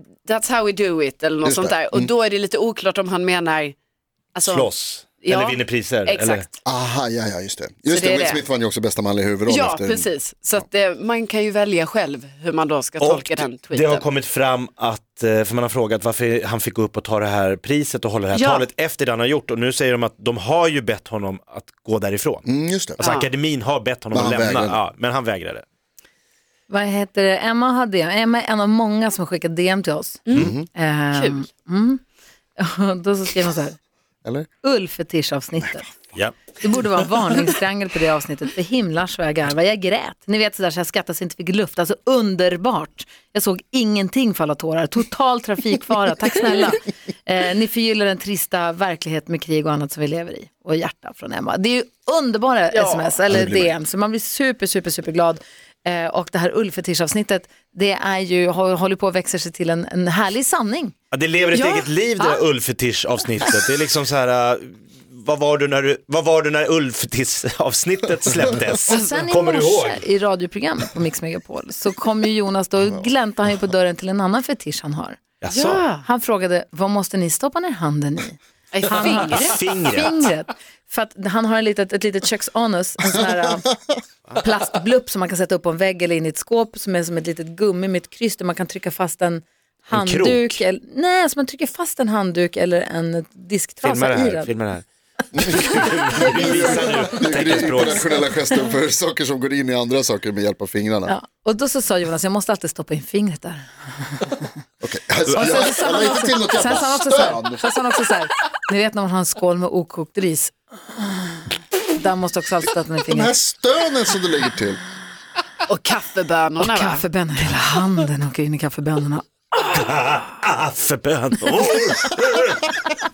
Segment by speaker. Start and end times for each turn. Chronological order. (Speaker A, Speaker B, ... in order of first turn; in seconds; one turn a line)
Speaker A: 0.2-3.8
Speaker B: 1.4-2.1
Speaker A: 4.3-6.5
Speaker C: 4.4-6.5
Speaker B: 6.7-10.1
Speaker A: 7.9-8.4
Speaker A: 9.5-14.1
Speaker C: 13.0-22.5
Speaker A: 18.3-18.7
Speaker B: 22.5-23.1
Speaker C: 23.0-25.6
Speaker A: 23.0-23.3
Speaker B: 24.1-24.8
Speaker D: 26.7-32.0
Speaker A: 30.3-30.5
Speaker B: 30.4-30.7
Speaker A: 31.1-31.5
Speaker D: 32.6-33.8
Speaker D: 34.6-35.9
Speaker D: 36.6-61.0
Speaker A: 52.7-53.1
Speaker B: 53.3-53.7
Speaker C: 61.1-70.0
Speaker A: 61.5-61.9
Speaker D: 68.9-75.2
Speaker C: 75.4-75.9
Speaker A: 75.5-76.0
Speaker D: 76.0-83.7
Speaker A: 78.7-79.6
Speaker C: 79.3-80.3
Speaker D: 84.4-94.5
Speaker C: 89.9-90.6
Speaker C: 93.8-98.3
Speaker B: 95.3-101.1
Speaker D: 96.1-97.2
Speaker D: 101.1-104.4
Speaker B: 104.8-107.6
Speaker C: 105.3-106.1
Speaker D: 105.3-113.3
Speaker B: 113.1-114.8
Speaker A: 115.7-117.0
Speaker D: 116.6-119.3
Speaker C: 119.6-122.8